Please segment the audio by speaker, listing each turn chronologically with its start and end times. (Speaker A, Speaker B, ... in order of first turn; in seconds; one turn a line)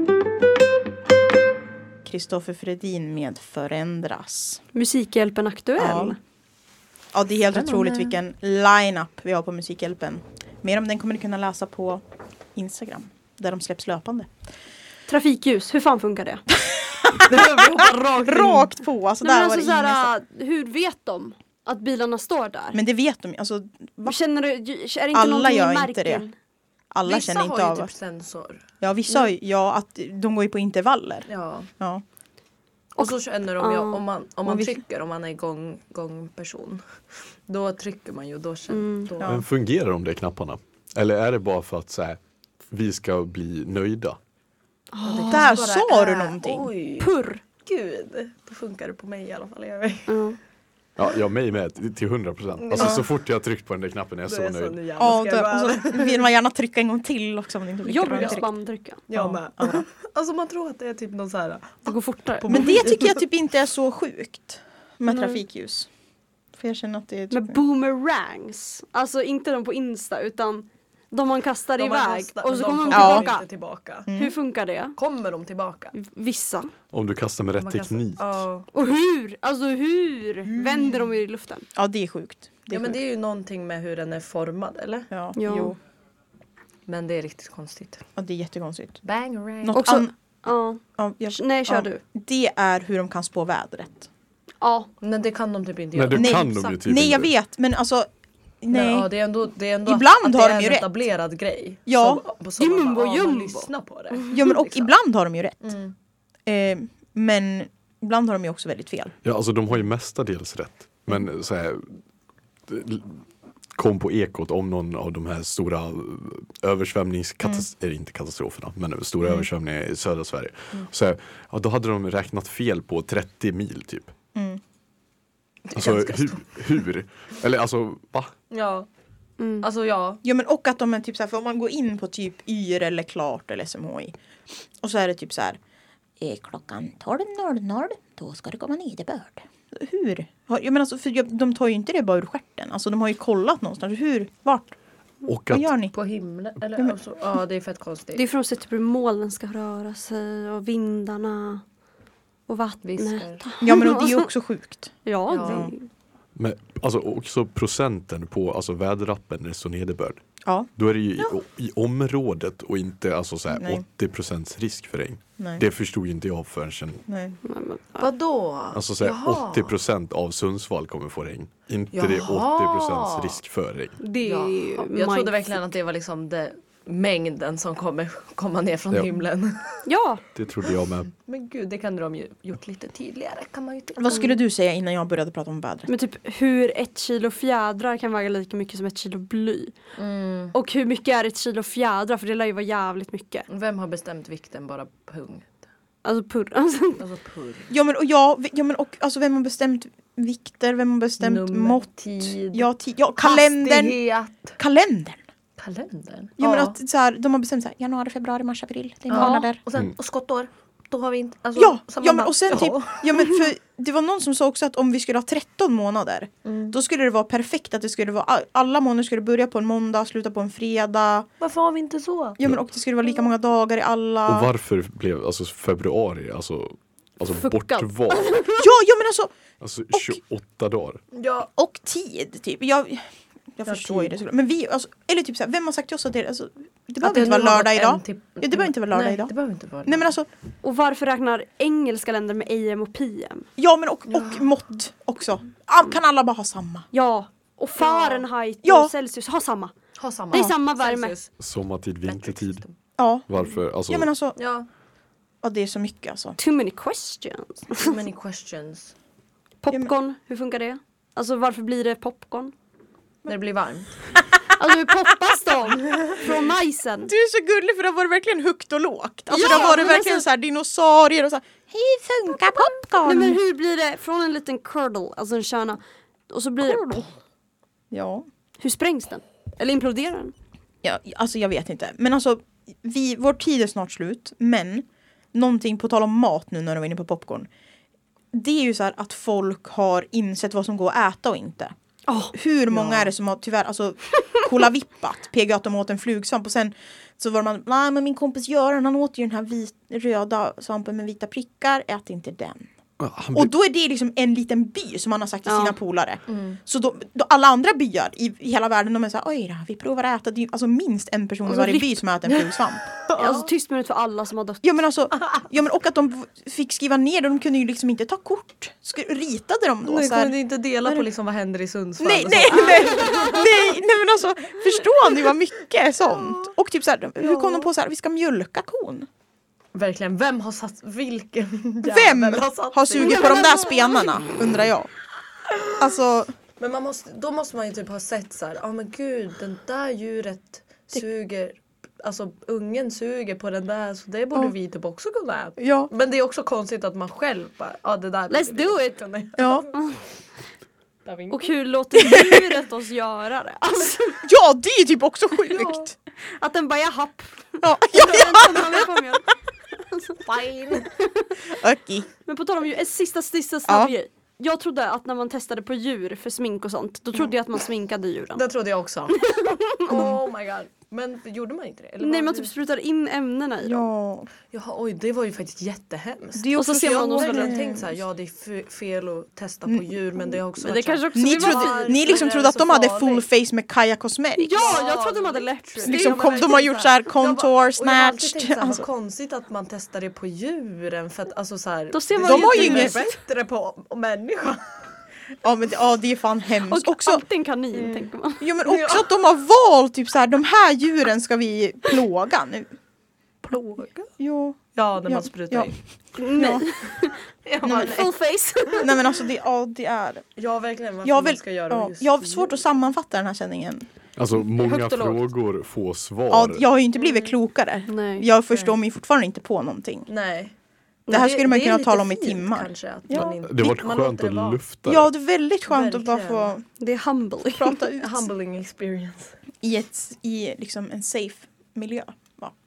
Speaker A: 2.0-4.6
Speaker B: 4.7-6.2
Speaker A: 5.8-6.2
Speaker A: 7.1-12.0
Speaker C: 7.5-8.2
Speaker A: 12.5-14.3
Speaker B: 15.1-16.4
Speaker A: 16.7-20.1
Speaker C: 17.2-18.7
Speaker B: 19.2-22.8
Speaker A: 22.7-24.2
Speaker B: 24.0-26.3
Speaker A: 25.1-26.2
Speaker A: 26.9-27.9
Speaker C: 27.0-29.2
Speaker A: 28.8-31.3
Speaker C: 31.3-31.7
Speaker C: 32.9-39.4
Speaker B: 33.0-34.0
Speaker B: 38.7-39.1
Speaker A: 39.2-39.5
Speaker D: 39.2-42.2
Speaker D: 42.7-44.2
Speaker B: 44.9-45.5
Speaker C: 45.0-50.1
Speaker A: 45.3-46.7
Speaker B: 47.0-47.4
Speaker B: 50.1-50.4
Speaker D: 51.0-54.8
Speaker C: 52.6-53.1
Speaker A: 52.8-53.0
Speaker C: 54.2-56.2
Speaker A: 55.0-58.4
Speaker B: 57.8-59.0
Speaker C: 58.1-58.5
Speaker C: 59.1-63.2
Speaker A: 59.1-59.8
Speaker B: 61.9-62.8
Speaker A: 62.5-65.9
Speaker B: 65.1-65.4
Speaker A: 66.5-67.6
Speaker B: 67.3-73.5
Speaker C: 71.8-74.1
Speaker A: 72.9-73.3
Speaker A: 74.1-74.3
Speaker B: 74.1-75.0
Speaker C: 75.0-75.9
Speaker B: 75.9-76.7
Speaker D: 76.9-78.4
Speaker C: 77.6-78.7
Speaker B: 78.7-81.7
Speaker A: 80.6-80.8
Speaker A: 81.7-83.0
Speaker C: 82.7-85.7
Speaker A: 85.1-85.8
Speaker B: 85.3-85.7
Speaker C: 86.9-88.0
Speaker A: 88.2-89.0
Speaker C: 89.0-89.8
Speaker A: 89.6-90.1
Speaker B: 89.7-90.8
Speaker A: 91.0-94.1
Speaker B: 91.3-92.0
Speaker B: 94.6-94.9
Speaker C: 95.0-96.5
Speaker D: 95.9-97.3
Speaker A: 96.1-98.1
Speaker A: 98.6-99.1
Speaker C: 98.7-104.9
Speaker A: 99.8-100.9
Speaker A: 101.8-102.2
Speaker B: 102.6-104.4
Speaker A: 104.3-105.7
Speaker C: 105.6-105.9
Speaker A: 106.5-109.2
Speaker D: 109.2-112.0
Speaker D: 112.7-124.1
Speaker A: 117.4-117.7
Speaker A: 124.3-124.6
Speaker C: 125.7-126.6
Speaker D: 125.7-128.3
Speaker C: 128.5-128.9
Speaker B: 129.4-129.7
Speaker C: 129.6-130.2
Speaker A: 130.2-134.1
Speaker A: 134.8-135.6
Speaker A: 136.2-144.7
Speaker D: 145.2-145.7
Speaker A: 145.5-145.9
Speaker C: 145.9-148.2
Speaker B: 148.1-151.6
Speaker B: 152.5-154.3
Speaker C: 152.8-153.4
Speaker A: 153.6-155.7
Speaker B: 155.0-155.9
Speaker C: 155.3-155.7
Speaker D: 156.3-160.2
Speaker A: 160.4-160.7
Speaker D: 160.8-167.0
Speaker A: 163.5-163.8
Speaker A: 165.4-165.6
Speaker A: 167.1-167.4
Speaker B: 167.4-168.1
Speaker C: 168.0-169.7
Speaker D: 168.7-174.0
Speaker C: 171.9-173.4
Speaker B: 174.0-175.6
Speaker C: 174.2-179.8
Speaker B: 179.8-180.2
Speaker D: 180.3-181.1
Speaker C: 181.2-184.3
Speaker A: 183.9-185.9
Speaker B: 185.9-189.8
Speaker C: 190.0-190.5
Speaker B: 190.5-193.4
Speaker C: 193.5-195.6
Speaker B: 196.0-197.0
Speaker C: 197.0-197.7
Speaker A: 197.7-204.0
Speaker C: 201.2-204.6
Speaker A: 204.6-205.2
Speaker C: 205.6-206.8
Speaker A: 206.4-209.6
Speaker C: 209.1-213.1
Speaker B: 209.2-209.5
Speaker A: 211.6-221.3
Speaker C: 216.4-216.7
Speaker C: 221.4-222.4
Speaker A: 222.4-224.5
Speaker D: 224.3-228.4
Speaker B: 227.3-228.6
Speaker A: 228.5-229.3
Speaker D: 229.6-231.0
Speaker A: 229.9-230.2
Speaker C: 231.1-231.5
Speaker A: 231.4-239.3
Speaker C: 233.7-234.2
Speaker C: 237.0-240.1
Speaker A: 239.8-240.3
Speaker B: 240.6-243.5
Speaker A: 243.6-246.9
Speaker C: 244.1-244.4
Speaker B: 246.9-249.7
Speaker C: 247.8-248.2
Speaker A: 248.6-248.9
Speaker C: 250.0-251.3
Speaker B: 250.3-251.2
Speaker D: 251.4-252.6
Speaker C: 252.0-252.7
Speaker A: 253.0-253.3
Speaker D: 253.3-254.1
Speaker A: 253.9-254.4
Speaker C: 254.4-254.7
Speaker A: 255.4-256.4
Speaker B: 256.4-258.0
Speaker C: 257.8-258.9
Speaker B: 259.6-262.5
Speaker C: 263.2-264.0
Speaker B: 264.5-267.1
Speaker C: 265.9-266.2
Speaker A: 267.1-273.4
Speaker B: 269.3-270.2
Speaker B: 273.0-277.1
Speaker A: 276.6-277.0
Speaker A: 277.9-278.3
Speaker B: 278.6-280.3
Speaker A: 280.8-287.5
Speaker A: 288.3-291.7
Speaker B: 292.1-292.3
Speaker A: 292.3-302.7
Speaker C: 292.7-293.1
Speaker D: 303.0-303.5
Speaker A: 303.3-313.0
Speaker B: 305.4-305.8
Speaker C: 306.3-306.6
Speaker B: 311.4-312.0
Speaker C: 313.1-313.4
Speaker B: 313.1-314.6
Speaker A: 314.6-321.1
Speaker C: 319.8-323.4
Speaker A: 322.0-329.1
Speaker B: 322.5-323.4
Speaker C: 326.1-326.5
Speaker C: 327.2-327.7
Speaker C: 329.7-334.2
Speaker A: 331.8-334.9
Speaker A: 335.8-336.3
Speaker C: 336.6-349.8
Speaker A: 345.6-345.9
Speaker B: 348.3-349.0
Speaker A: 349.4-349.7
Speaker C: 351.0-351.6
Speaker B: 351.3-354.2
Speaker A: 354.2-355.9
Speaker B: 356.4-360.2
Speaker A: 357.6-358.9
Speaker C: 360.2-360.9
Speaker B: 361.0-361.3
Speaker A: 361.5-362.1
Speaker B: 362.2-368.4
Speaker A: 363.7-363.9
Speaker C: 368.4-369.2
Speaker B: 369.1-370.1
Speaker C: 369.8-372.5
Speaker B: 372.0-373.9
Speaker A: 373.6-374.3
Speaker C: 374.5-383.2
Speaker A: 376.4-378.0
Speaker B: 376.5-377.6
Speaker A: 379.7-380.4
Speaker B: 380.6-382.3
Speaker A: 381.1-384.7
Speaker B: 384.4-386.3
Speaker C: 384.5-394.6
Speaker A: 385.8-388.9
Speaker B: 391.9-393.2
Speaker A: 392.2-392.9
Speaker A: 395.4-397.2
Speaker B: 396.6-398.4
Speaker C: 397.7-398.1
Speaker A: 398.4-402.7
Speaker C: 398.6-399.1
Speaker C: 403.5-404.1
Speaker A: 404.2-405.7
Speaker C: 404.7-405.8
Speaker B: 406.1-408.9
Speaker A: 406.3-406.7
Speaker C: 407.4-408.1
Speaker A: 407.6-408.0
Speaker A: 408.8-410.2
Speaker C: 410.4-412.5
Speaker A: 411.0-413.9
Speaker D: 414.1-416.6
Speaker B: 414.5-415.3
Speaker A: 416.3-420.1
Speaker C: 417.0-417.3
Speaker B: 417.9-418.3
Speaker C: 418.5-418.8
Speaker C: 420.1-420.5
Speaker C: 421.1-424.6
Speaker A: 421.1-423.3
Speaker D: 423.1-425.1
Speaker A: 424.9-426.6
Speaker C: 425.7-426.5
Speaker B: 426.8-427.8
Speaker A: 427.4-428.3
Speaker C: 428.0-429.4
Speaker A: 429.6-432.6